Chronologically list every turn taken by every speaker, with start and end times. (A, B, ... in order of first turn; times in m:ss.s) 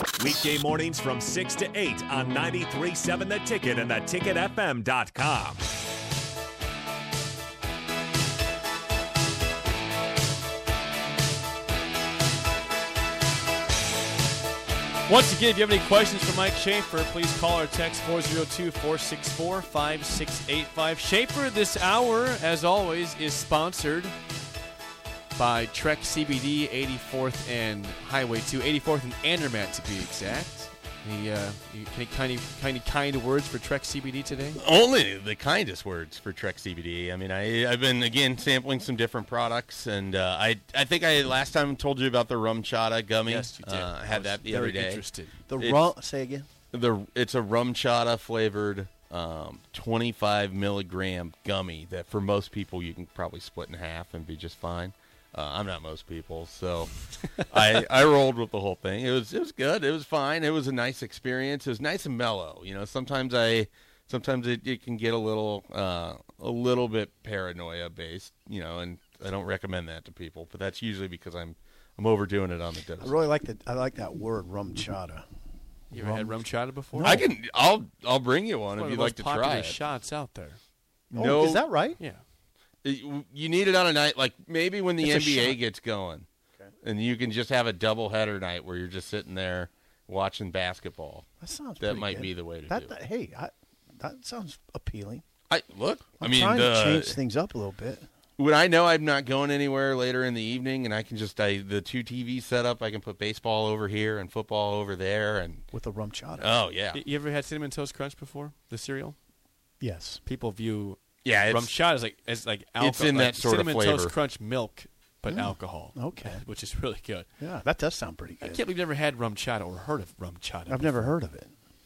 0:00.2-0:05.6 A
0:15.1-0:24.1 B
0:25.4-0:34.6 B
0:34.6-0:45.0 C
0:43.2-0:45.4 B
0:45.5-0:46.5 D
0:46.7-1:13.2 C
1:13.0-1:15.2 D
1:15.9-1:17.2 B
1:15.9-1:17.3 D
1:17.0-1:19.8 C
1:18.7-1:20.6 B
1:21.1-1:22.0 D
1:21.1-1:21.7 C
1:22.8-1:26.3 C
1:25.0-1:25.6 D
1:26.8-1:31.3 C
1:31.4-1:35.2 D
1:31.8-1:32.9 C
1:35.5-1:37.2 C
1:36.2-1:38.1 D
1:38.4-1:45.6 C
1:45.7-1:46.5 D
1:46.4-1:47.0 C
1:46.9-1:49.2 B
1:49.8-1:50.2 D
1:50.2-1:57.3 B
1:51.2-1:51.7 C
1:52.8-1:54.1 C
1:55.3-1:56.4 D
1:57.4-1:58.6 D
1:58.4-2:01.1 B
2:00.7-2:01.5 D